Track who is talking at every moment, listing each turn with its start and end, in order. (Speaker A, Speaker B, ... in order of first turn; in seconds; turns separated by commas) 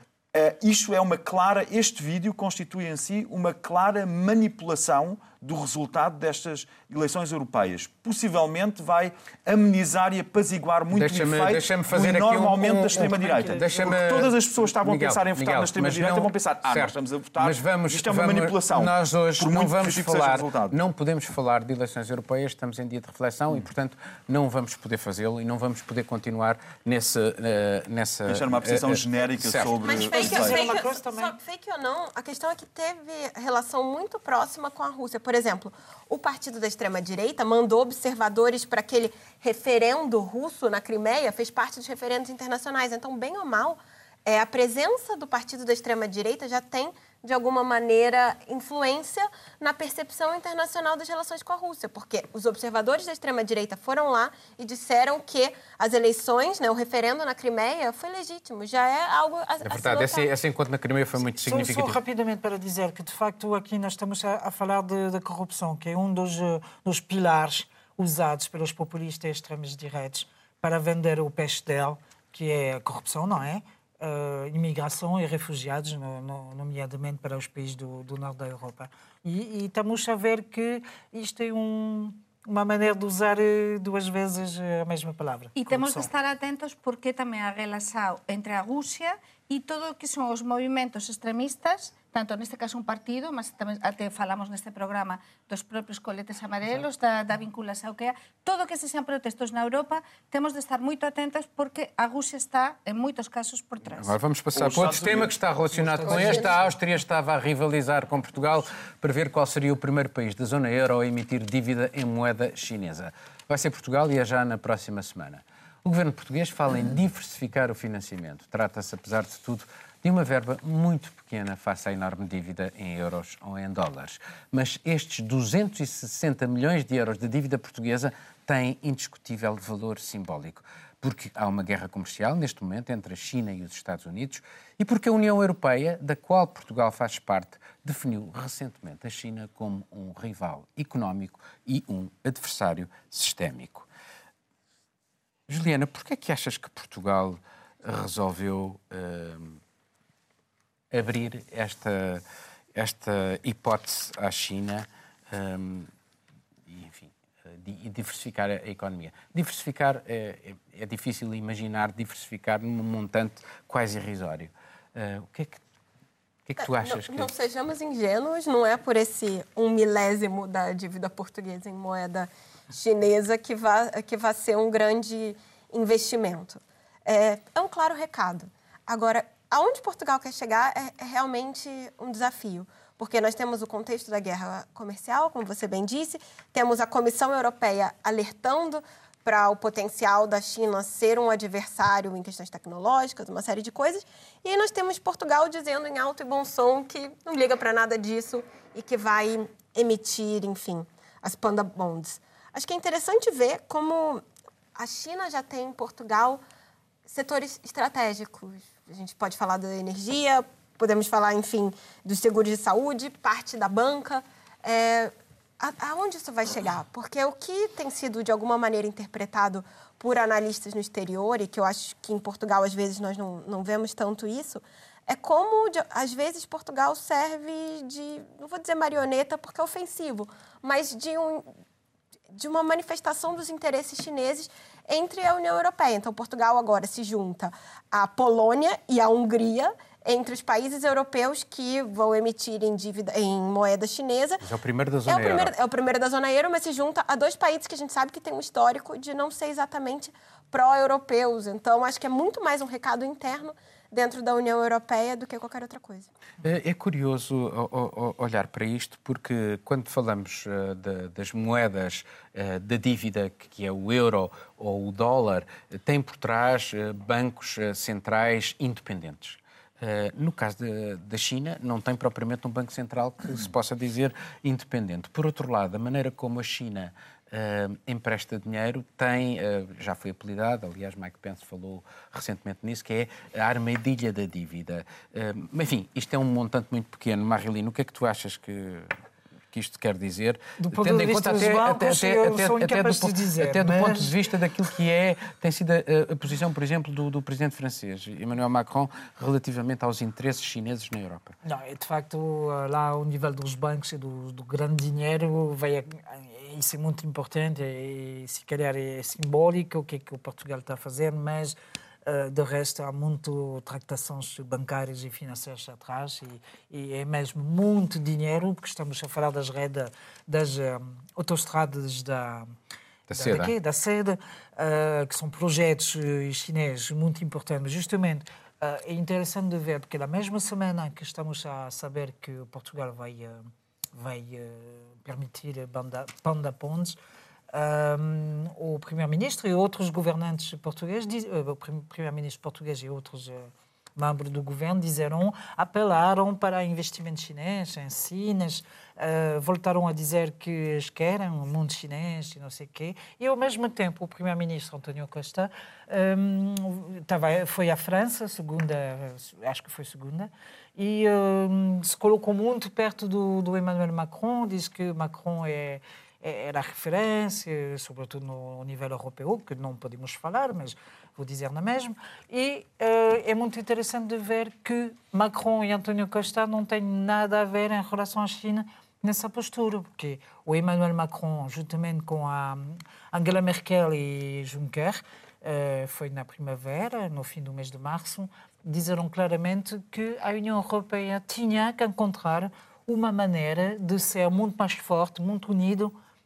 Speaker A: 0.3-20.8, Speaker B: 10.9-30.0, Speaker A: 28.3-30.6, Speaker C: 29.8-60.3, Speaker D: 30.0-31.4, Speaker B: 59.6-62.0, Speaker D: 61.2-86.1, Speaker E: 85.5-104.2, Speaker B: 104.0-143.9, Speaker A: 104.5-105.3, Speaker D: 105.8-106.8, Speaker B: 145.5-149.6, Speaker B: 150.9-152.2, Speaker B: 152.8-155.9, Speaker B: 156.7-165.6, Speaker B: 166.5-167.3, Speaker C: 166.6-204.2, Speaker C: 204.8-206.4, Speaker C: 207.1-231.4, Speaker C: 232.3-244.4, Speaker B: 244.4-245.5, Speaker C: 245.1-256.1, Speaker B: 256.4-288.9, Speaker B: 289.5-301.3, Speaker D: 290.6-294.1, Speaker D: 301.4-322.5, Speaker B: 323.1-323.5, Speaker D: 323.1-337.0, Speaker D: 337.5-395.9